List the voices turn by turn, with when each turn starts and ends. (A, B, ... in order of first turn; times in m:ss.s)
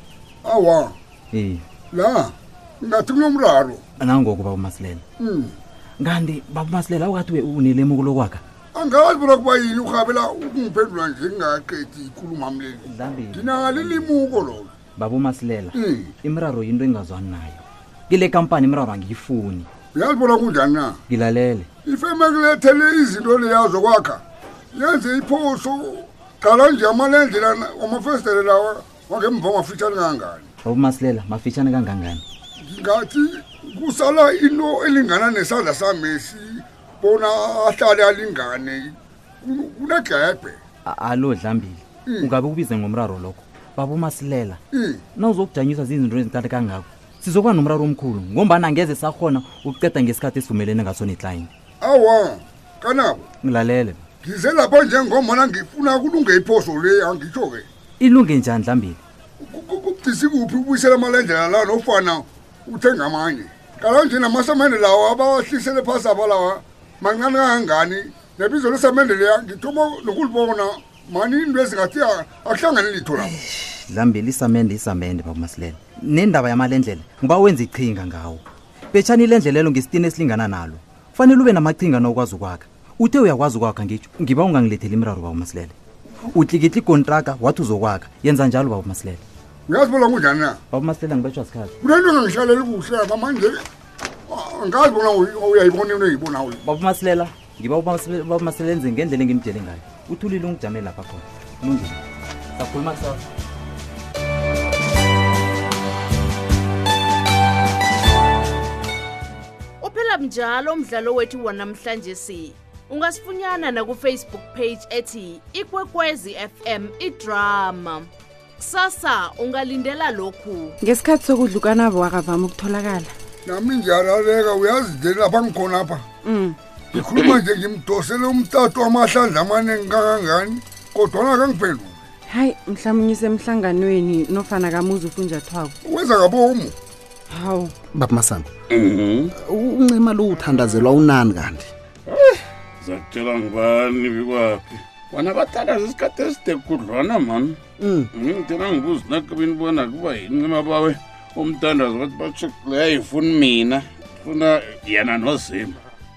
0:00.4-0:01.0 A
0:01.3-0:01.6 B
0:01.9-0:03.8 A
0:04.0-0:05.0 B
0:05.2-0:05.6 A
0:06.0-0:08.4 B
0:08.8-0:14.7 A
0:12.8-0:19.7 B
0:15.8-0:16.1 A
0:20.0-0:21.0 A
0:21.1-0:21.7 B
0:21.9-0:24.2 A
0:24.7-0:30.5 A
0:30.6-0:32.2 B
0:32.6-0:40.6 A
0:40.9-0:44.6 B
0:44.7-0:45.0 A
0:45.2-0:51.5 B
0:51.8-0:53.2 A
0:53.4-0:54.0 B
0:54.2-0:57.7 A
0:58.0-0:59.0 B
0:59.4-1:13.4 A
1:13.3-1:25.7 B
1:26.3-1:29.2 B
1:29.7-1:30.6 A
1:30.7-1:31.8 B
1:31.8-1:33.6 A
1:34.3-1:36.6 A
1:36.6-1:42.0 B
1:42.6-1:43.2 B
1:49.8-2:00.8 C
2:00.8-2:03.1 D
2:03.5-2:06.0 A
2:06.3-2:06.6 D
2:06.9-2:12.0 A
2:12.3-2:15.8 D
2:15.8-2:16.8 A
2:17.3-2:17.8 D
2:17.9-2:18.5 E
2:18.7-2:19.3 F
2:19.3-2:21.7 E
2:22.8-2:24.6 F
2:25.1-2:27.6 F
2:27.8-2:28.1 E
2:28.2-2:35.8 F